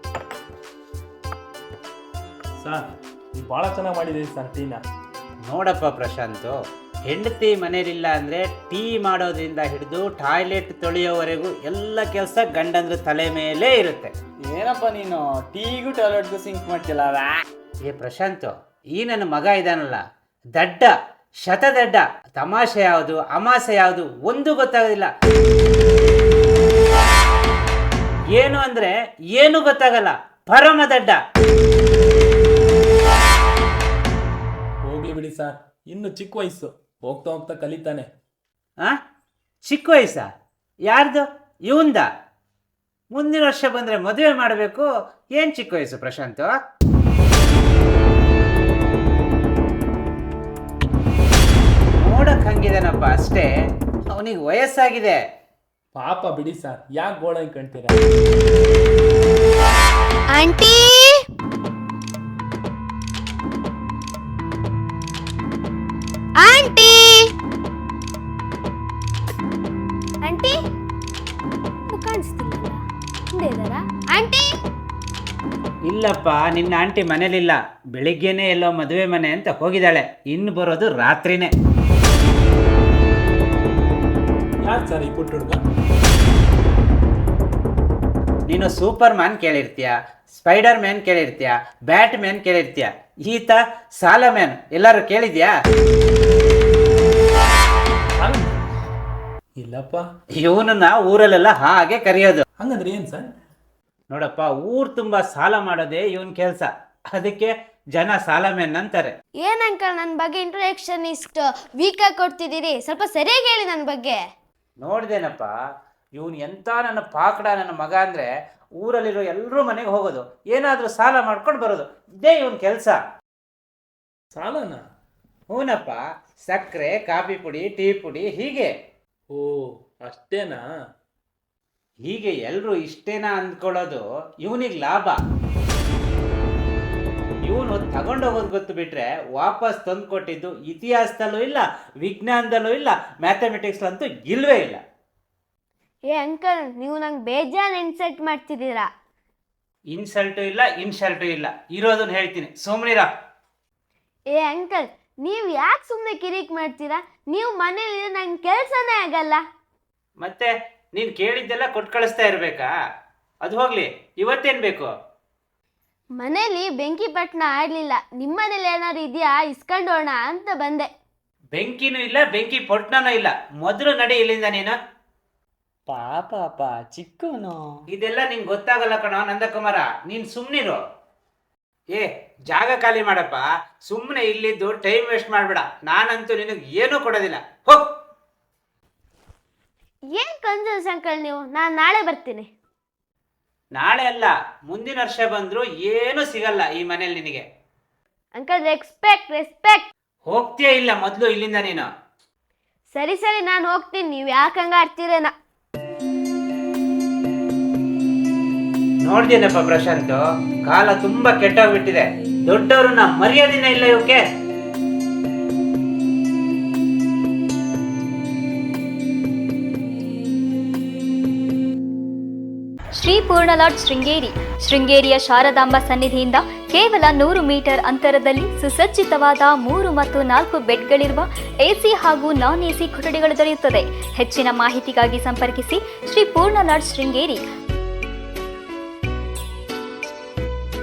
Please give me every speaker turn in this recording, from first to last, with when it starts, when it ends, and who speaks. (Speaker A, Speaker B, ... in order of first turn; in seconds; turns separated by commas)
Speaker A: 2.6-4.8, Speaker B: 5.5-14.1, Speaker C: 14.5-17.3, Speaker B: 17.9-20.0, Speaker B: 20.5-20.9, Speaker B: 21.4-25.1, Speaker B: 28.3-31.2, Speaker A: 34.8-38.1, Speaker B: 39.6-40.3, Speaker B: 40.8-42.1, Speaker B: 43.1-46.5, Speaker B: 52.0-53.5, Speaker B: 54.1-55.2, Speaker A: 56.0-58.0, Speaker D: 60.3-61.1, Speaker D: 66.4-67.3, Speaker D: 70.2-70.5, Speaker D: 71.9-72.8, Speaker D: 73.3-74.5, Speaker B: 75.9-81.5, Speaker A: 84.6-85.6, Speaker B: 88.5-95.5, Speaker A: 98.2-98.5, Speaker A: 99.6-100.1, Speaker B: 100.3-102.4, Speaker A: 102.6-103.3, Speaker B: 104.1-109.2, Speaker D: 109.4-114.2, Speaker B: 114.8-115.5, Speaker B: 116.2-123.0, Speaker A: 124.3-124.8, Speaker B: 125.5-128.7, Speaker A: 129.3-130.6, Speaker B: 132.0-135.2, Speaker B: 137.4-144.8, Speaker D: 146.1-148.9, Speaker B: 149.9-153.1, Speaker D: 154.3-159.4, Speaker B: 160.2-162.7, Speaker B: 163.4-164.9, Speaker D: 166.2-170.9, Speaker B: 171.5-174.8, Speaker C: 175.9-177.7, Speaker B: 177.9-180.8, Speaker B: 181.9-187.9, Speaker D: 190.1-192.5, Speaker B: 193.7-197.4, Speaker D: 198.3-199.9, Speaker B: 200.3-201.9, Speaker D: 202.9-205.3, Speaker B: 209.0-214.2, Speaker E: 222.9-237.4